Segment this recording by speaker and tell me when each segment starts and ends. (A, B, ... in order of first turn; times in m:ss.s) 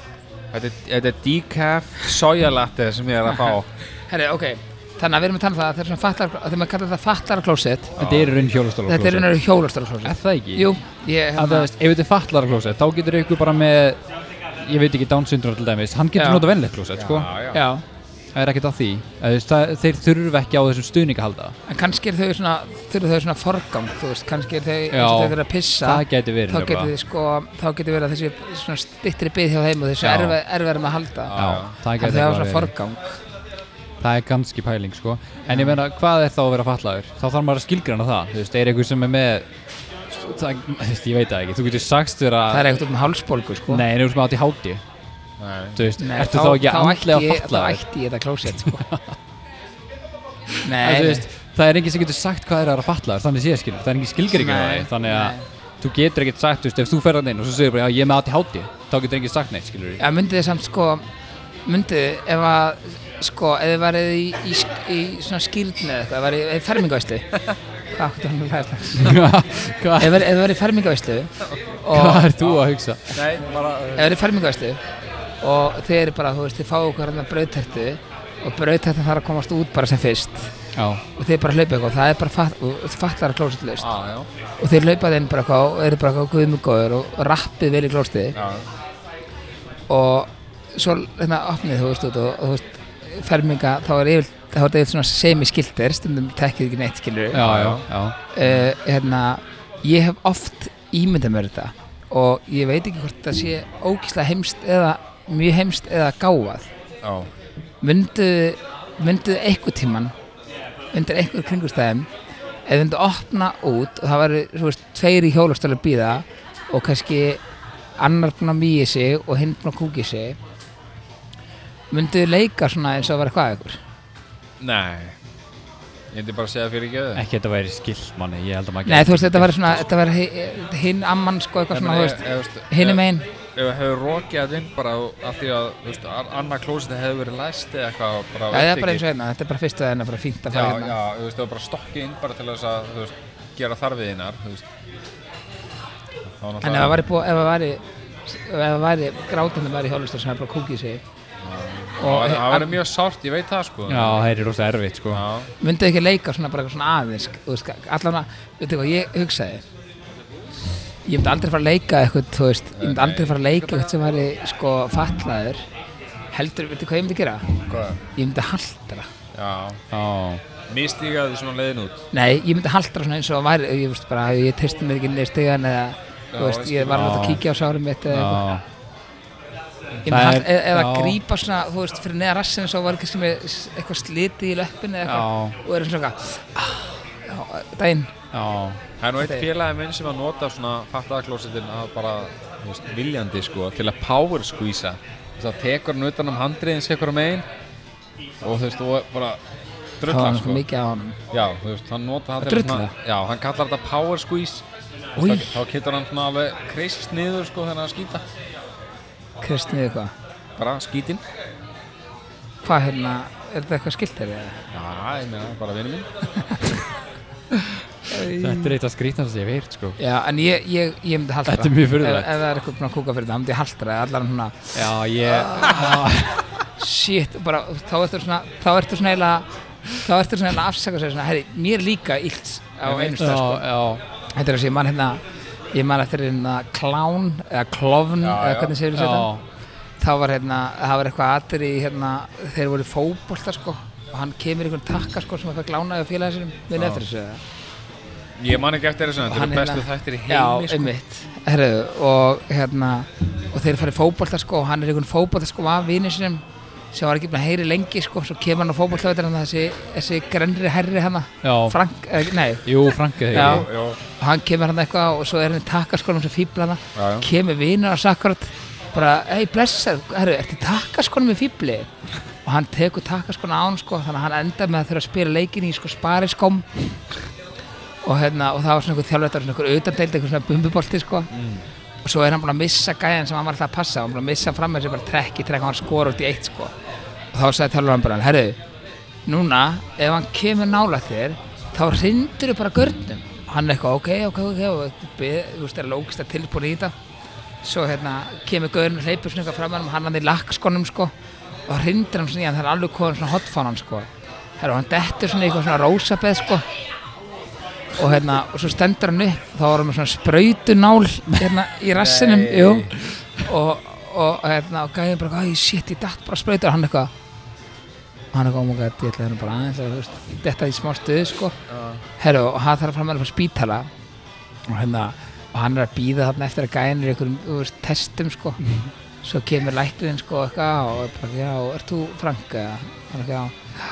0:00.5-0:03.7 A
0:03.3-0:03.6 B
0:04.1-0:08.0 B
0:08.0-0:08.3 A
0:08.0-0:09.3 C
0:08.9-0:11.7 B
0:10.0-0:10.7 C
0:11.4-0:14.0 C
0:14.6-0:17.3 C
0:16.2-0:16.4 B
0:16.9-0:17.6 A
0:17.5-0:17.8 B
0:18.3-0:21.6 C
0:21.7-0:33.2 B
0:24.9-0:26.9 C
0:30.0-0:30.3 C
0:31.3-0:31.7 A
0:31.3-0:32.7 C
0:34.0-0:39.5 C
0:35.4-0:35.8 B
0:40.1-0:42.7 C
0:42.5-0:43.8 B
0:43.7-0:44.8 C
0:45.4-0:45.9 A
0:45.7-0:47.8 C
0:46.0-0:48.8 B
0:48.6-0:49.2 C
0:50.6-0:51.3 B
0:50.7-1:00.0 C
0:54.3-0:55.4 B
1:00.0-1:01.0 B
1:01.6-1:07.4 B
1:07.9-1:09.2 B
1:09.0-1:10.2 C
1:10.0-1:12.3 B
1:11.4-1:11.8 A
1:11.9-1:13.2 C
1:12.4-1:14.1 A
1:14.0-1:14.8 B
1:15.4-1:20.5 B
1:20.7-1:21.0 C
1:21.1-1:23.9 B
1:23.8-1:24.3 A
1:24.6-1:28.4 B
1:28.3-1:28.7 A
1:29.9-1:37.4 B
1:37.3-1:38.1 C
1:37.4-1:37.8 A
1:38.3-1:46.7 B
1:38.4-1:38.7 A
1:47.0-1:47.3 A
1:47.8-1:50.1 B
1:50.9-1:52.1 B
1:52.6-1:57.4 B
1:58.0-2:00.4 B
2:01.9-2:03.8 B
2:04.6-2:05.2 A
2:06.1-2:07.2 A
2:07.1-2:09.8 C
2:08.8-2:13.2 B
2:11.7-2:13.0 A
2:13.6-2:19.0 A
2:18.5-2:20.9 B
2:20.5-2:24.6 A
2:26.4-2:27.0 A
2:26.6-2:31.0 B
2:31.4-2:34.2 A
2:32.0-2:32.7 B
2:33.9-2:35.2 C
2:35.1-2:35.5 A
2:35.6-2:39.6 B
2:41.0-2:45.6 B
2:42.8-2:43.4 A
2:46.3-2:49.1 B
2:47.7-2:48.0 A
2:49.3-2:49.8 A
2:49.9-2:50.4 C
2:50.7-2:52.0 A
2:52.1-2:58.4 B
2:56.3-2:57.3 A
2:56.9-2:57.4 C
2:58.1-2:58.6 C
3:00.0-3:08.1 B
3:00.0-3:01.2 C
3:05.0-3:05.6 C
3:08.3-3:08.8 C
3:09.0-3:17.4 A
3:09.2-3:09.5 B
3:18.4-3:19.4 A
3:20.0-3:20.6 A
3:20.1-3:21.2 B
3:21.3-3:24.6 A
3:22.4-3:22.9 B
3:25.2-3:25.6 B
3:25.2-3:28.2 A
3:29.4-3:30.1 B
3:30.6-3:31.2 A
3:32.6-3:34.6 B
3:34.7-3:36.1 A
3:38.1-3:38.8 B
3:38.2-3:40.0 C
3:40.0-3:46.1 B
3:41.4-3:42.3 C
3:44.7-3:46.5 C
3:46.8-3:53.6 B
3:53.1-3:54.0 C
3:54.3-3:59.3 B
3:58.2-3:58.8 A
3:58.9-3:59.4 C
4:00.0-4:07.4 B
4:06.7-4:07.0 A
4:08.4-4:10.9 A
4:09.2-4:31.9 B
4:21.4-4:21.8 C
4:22.6-4:23.7 C
4:23.3-4:24.0 A
4:27.0-4:27.3 A
4:32.4-4:36.7 B
4:38.0-4:41.3 B
4:41.3-4:41.6 A
4:42.0-4:46.7 B
4:47.3-4:48.6 B
4:49.2-4:57.0 B
4:57.6-5:01.1 B
5:01.7-5:06.6 B
5:08.0-5:17.1 B
5:12.0-5:13.1 A
5:18.3-5:21.6 B
5:21.7-5:22.0 A
5:22.2-5:23.9 B
5:24.7-5:28.6 B
5:29.2-5:33.7 B